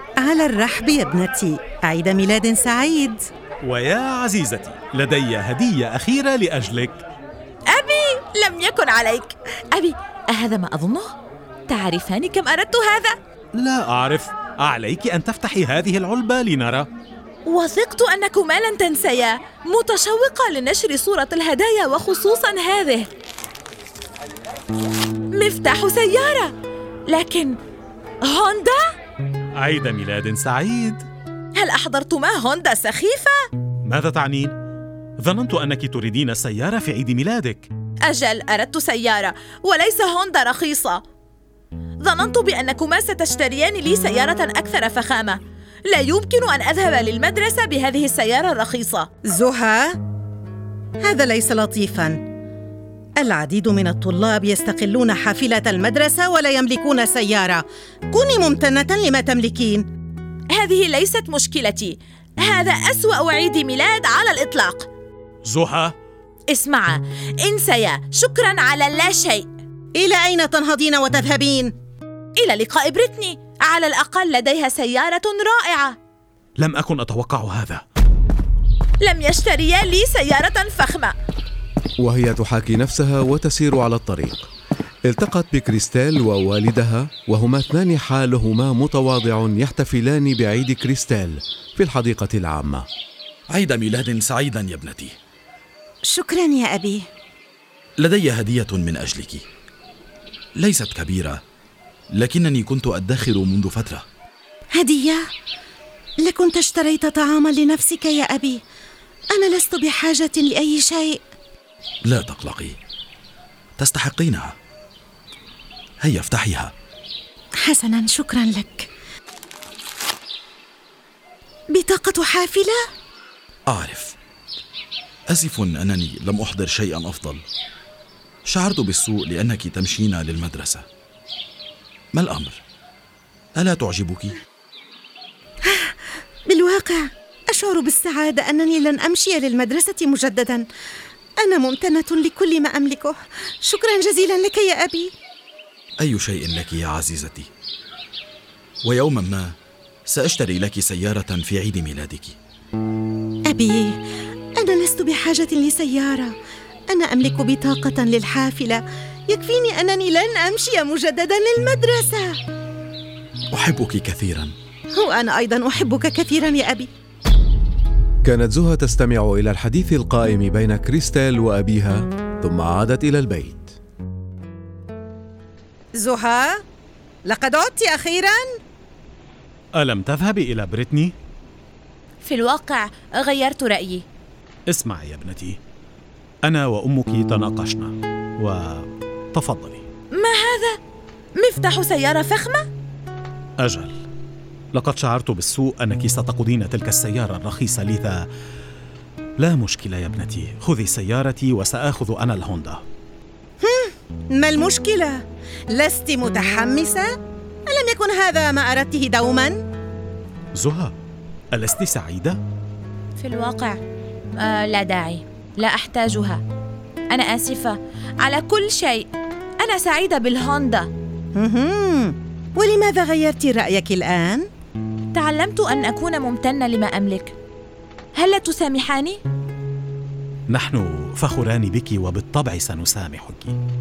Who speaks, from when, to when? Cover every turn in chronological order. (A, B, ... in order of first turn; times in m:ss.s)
0:00.2-0:03.2 A
0:03.6-0:07.0 B
0:07.7-0:11.1 C
0:11.7-0:13.2 C
0:13.5-0:16.9 B
0:17.4-0:23.1 C
0:25.3-0:26.5 C
0:27.1-0:27.6 C
0:28.2-0:28.9 C
0:29.5-0:31.0 B
0:31.5-0:33.5 C
0:33.8-0:34.6 B
0:35.2-0:37.7 B
0:38.0-0:41.0 C
0:42.0-0:49.1 C
0:49.2-0:50.0 A
0:51.0-0:52.2 A
0:53.2-0:59.8 A
1:00.5-1:04.9 C
1:05.4-1:05.9 B
1:06.5-1:09.5 C
1:09.9-1:11.7 A
1:12.4-1:16.0 C
1:16.6-1:17.8 B
1:19.0-1:21.1 C
1:22.0-1:24.5 D
1:25.0-1:32.8 D
1:33.5-1:35.2 E
1:36.0-1:37.0 A
1:38.0-1:39.4 E
1:40.6-1:41.4 E
1:42.1-1:44.0 E
1:44.7-1:45.2 A
1:46.2-1:48.6 A
1:49.3-1:51.2 A
1:52.0-1:52.8 E
1:53.8-1:54.5 E
1:56.0-1:56.7 E
1:57.6-1:58.9 A
2:01.7-2:02.8 A
2:03.7-2:04.2 E
2:05.3-2:07.4 E
2:08.4-2:10.8 E
2:12.1-2:12.6 E
2:13.5-2:14.4 E
2:15.6-2:15.9 A
2:16.5-2:20.6 A
2:21.4-2:25.1 A
2:26.0-2:27.5 E
2:28.8-2:32.4 E
2:33.5-2:34.0 A
2:34.6-2:36.3 A
2:36.9-2:42.4 A
2:43.5-2:44.5 E
2:44.9-2:46.9 A
2:48.2-2:53.7 D
2:55.9-2:56.6 A
2:57.2-2:58.4 A
2:59.8-3:01.1 B
3:02.2-3:04.0 C
3:04.7-3:05.6 B
3:06.4-3:09.8 B
3:10.1-3:10.8 C
3:11.4-3:12.7 C
3:13.6-3:14.0 B
3:14.7-3:18.2 B
3:19.4-3:22.8 B
3:23.6-3:27.1 A
3:27.7-3:29.6 A
3:30.5-3:30.9 B
3:31.5-3:32.4 B
3:33.2-3:33.8 C
3:34.4-3:36.4 C
3:37.1-3:40.9 C
3:41.3-3:44.5 A
3:45.1-3:47.3 C
3:48.1-3:49.2 C
3:50.5-3:53.6 B